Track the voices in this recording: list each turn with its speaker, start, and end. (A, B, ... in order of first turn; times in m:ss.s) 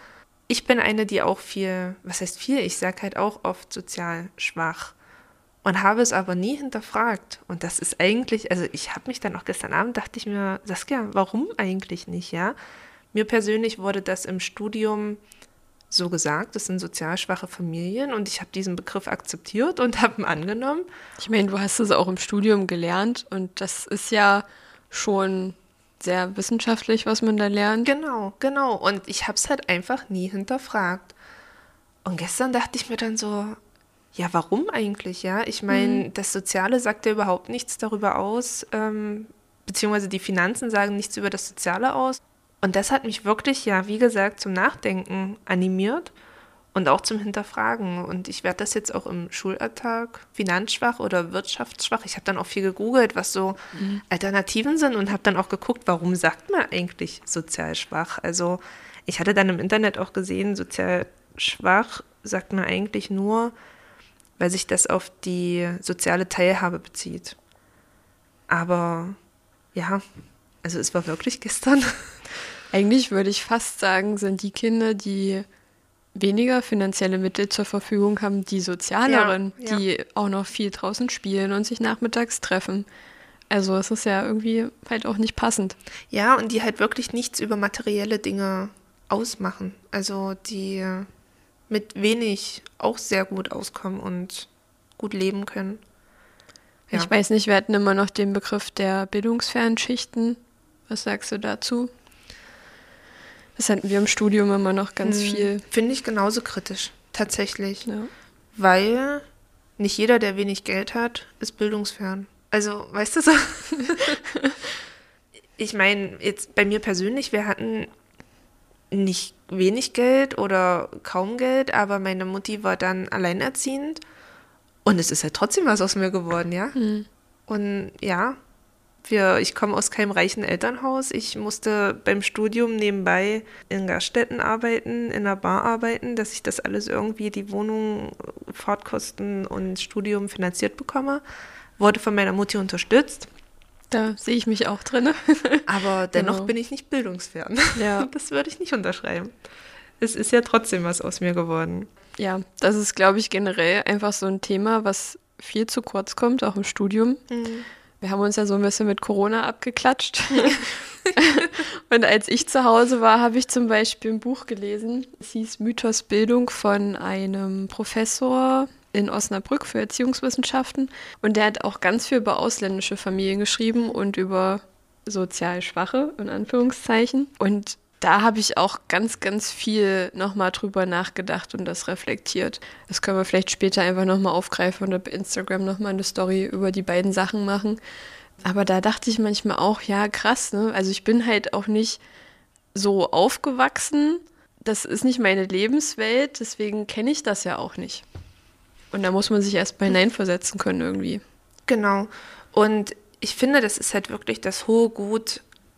0:00.5-0:04.9 A
0:05.6-0:12.6 A
0:13.1-0:15.2 A
0:15.9-0:20.9 A
0:21.2-0:27.9 B
0:27.8-0:31.1 A
0:32.0-0:33.6 A
0:34.1-0:46.1 A
0:35.7-0:36.0 B
0:46.7-1:03.5 A
0:53.8-0:54.0 B
1:04.4-1:07.4 A
1:08.5-1:09.2 A
1:09.7-1:10.0 A
1:10.6-1:12.2 A
1:12.7-1:15.4 B
1:16.1-1:22.8 B
1:19.0-1:19.8 A
1:23.5-1:25.8 B
1:26.1-1:31.1 A
1:31.7-1:35.8 A
1:36.9-1:41.9 B
1:43.6-1:45.6 B
1:45.0-1:47.9 A
1:47.8-1:48.1 B
1:48.5-1:49.2 A
1:49.8-1:54.2 A
1:53.9-1:54.5 B
1:55.6-1:57.9 A
1:58.9-2:04.0 A
2:04.8-2:06.8 A
2:06.7-2:07.0 B
2:07.5-2:08.4 A
2:09.0-2:21.2 A
2:21.8-2:23.3 A
2:23.9-2:26.5 B
2:25.6-2:29.3 A
2:27.8-2:28.1 B
2:30.0-2:31.9 A
2:32.2-2:37.2 B
2:37.3-2:37.7 A
2:38.0-3:07.8 B
3:08.4-3:12.0 B
3:12.7-3:18.0 B
3:18.9-3:21.2 B
3:21.7-3:25.4 A